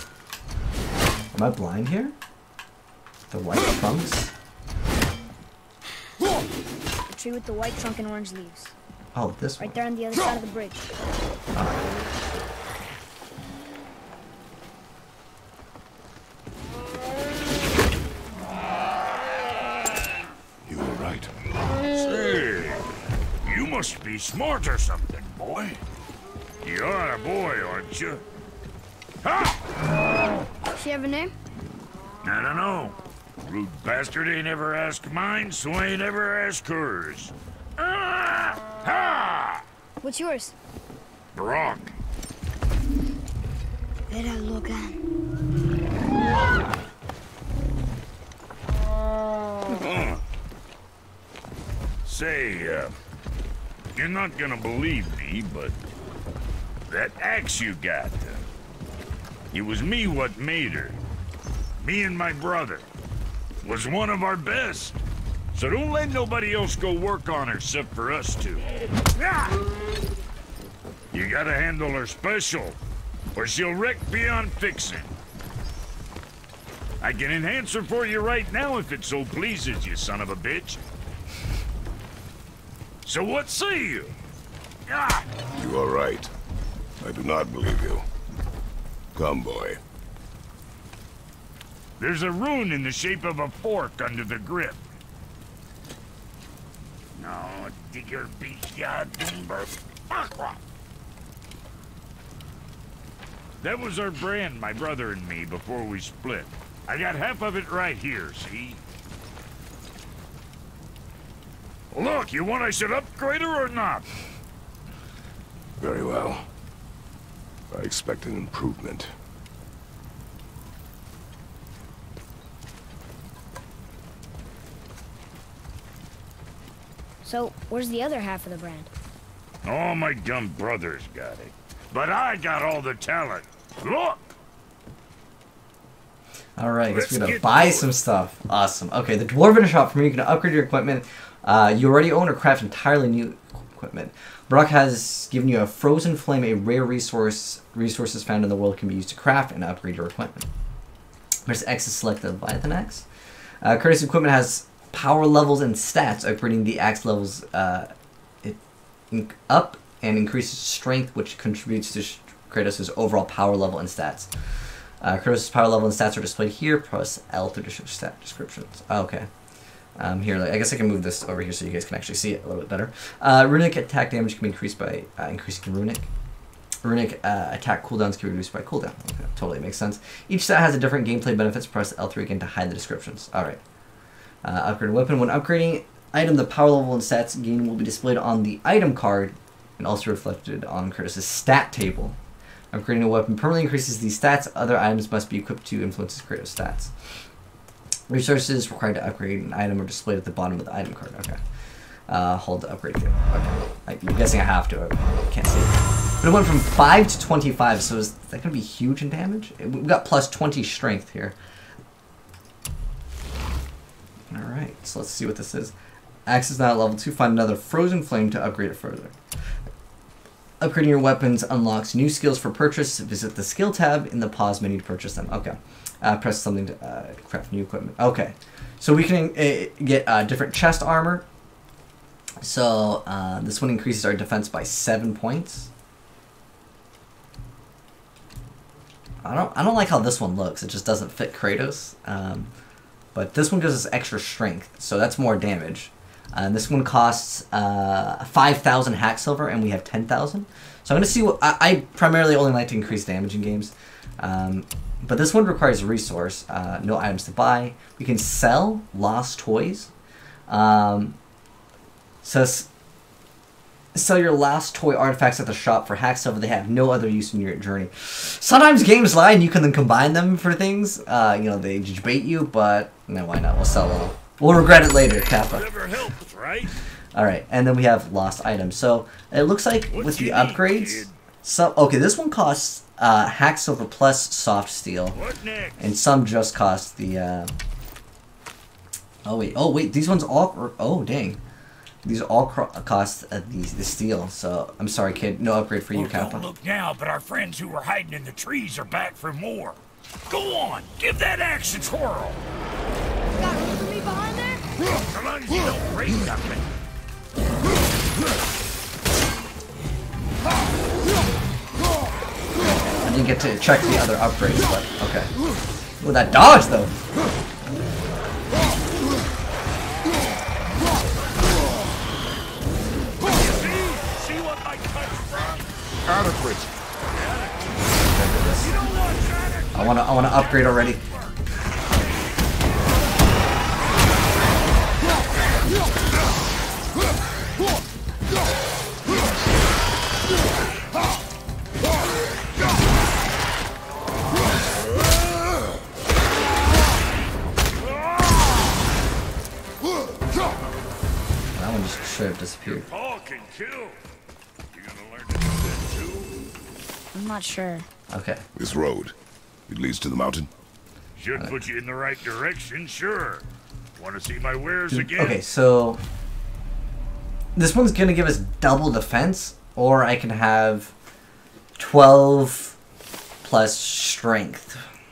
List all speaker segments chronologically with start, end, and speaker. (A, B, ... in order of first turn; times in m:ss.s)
0:01.3-0:02.1 A
0:03.3-0:04.3 A
0:07.1-0:08.7 B
0:09.1-0:09.8 A
0:09.6-0:10.9 B
0:11.5-0:11.9 A
0:20.6-0:21.3 C
0:21.9-0:22.8 D
0:23.4-0:25.8 D
0:26.6-0:28.2 D
0:29.2-0:29.6 D
0:30.7-0:31.3 B
0:32.2-0:39.6 D
0:40.0-0:40.5 B
0:41.3-0:41.9 D
0:44.1-0:45.0 B
0:49.7-0:50.2 D
0:52.0-0:52.9 D
0:53.9-0:55.7 D
0:56.9-0:58.4 D
0:59.5-1:01.0 D
1:01.8-1:02.9 D
1:03.6-1:05.0 D
1:05.5-1:09.6 D
1:11.1-1:12.8 D
1:13.3-1:15.1 D
1:17.0-1:20.8 D
1:23.0-1:24.1 D
1:24.9-1:25.2 D
1:25.5-1:26.3 C
1:27.0-1:28.0 C
1:29.1-1:29.8 C
1:32.0-1:34.8 D
1:37.2-1:40.6 D
1:43.6-1:48.8 D
1:51.9-1:54.0 D
1:55.8-1:56.4 C
1:57.7-1:59.1 C
2:07.2-2:08.9 B
2:09.6-2:14.3 D
2:16.6-2:30.5 A
2:16.9-2:17.9 D
2:31.4-2:33.0 A
2:33.6-2:37.9 A
2:39.1-2:44.3 A
2:45.0-2:49.3 A
2:50.0-2:56.1 A
2:56.8-3:03.6 A
3:04.4-3:12.2 A
3:12.7-3:17.2 A
3:18.1-3:21.4 A
3:22.1-3:31.3 A
3:34.3-3:35.7 A
3:36.3-3:39.1 A
3:40.6-3:51.2 A
3:52.4-3:55.7 A
3:59.2-4:02.5 A
4:03.1-4:19.9 A
4:20.5-4:21.2 A
4:22.2-4:22.7 A
4:23.9-4:35.9 A
4:34.9-4:36.7 D
4:37.1-4:45.2 A
4:39.9-4:41.2 D
4:45.1-4:45.8 D
4:45.8-4:47.5 A
4:49.2-4:51.4 A
4:52.0-4:56.5 A
4:55.9-5:02.4 D
5:03.4-5:04.7 B
5:05.1-5:06.6 D
5:12.7-5:15.3 A
5:16.0-5:16.9 A
5:23.2-5:25.7 D
5:26.0-5:26.7 C
5:27.1-5:27.8 D
5:28.0-5:28.8 A
5:28.6-5:31.4 D
5:29.7-5:31.0 A
5:51.5-5:52.9 A
5:52.6-5:54.0 D
5:54.7-5:56.3 D
5:57.1-5:57.9 B
5:58.1-5:58.4 A
5:58.6-5:59.1 C
5:59.7-6:00.5 C
6:01.2-6:05.4 D
6:04.9-6:06.0 A
6:07.5-6:10.9 A
6:11.8-6:12.8 A
6:13.4-6:14.8 A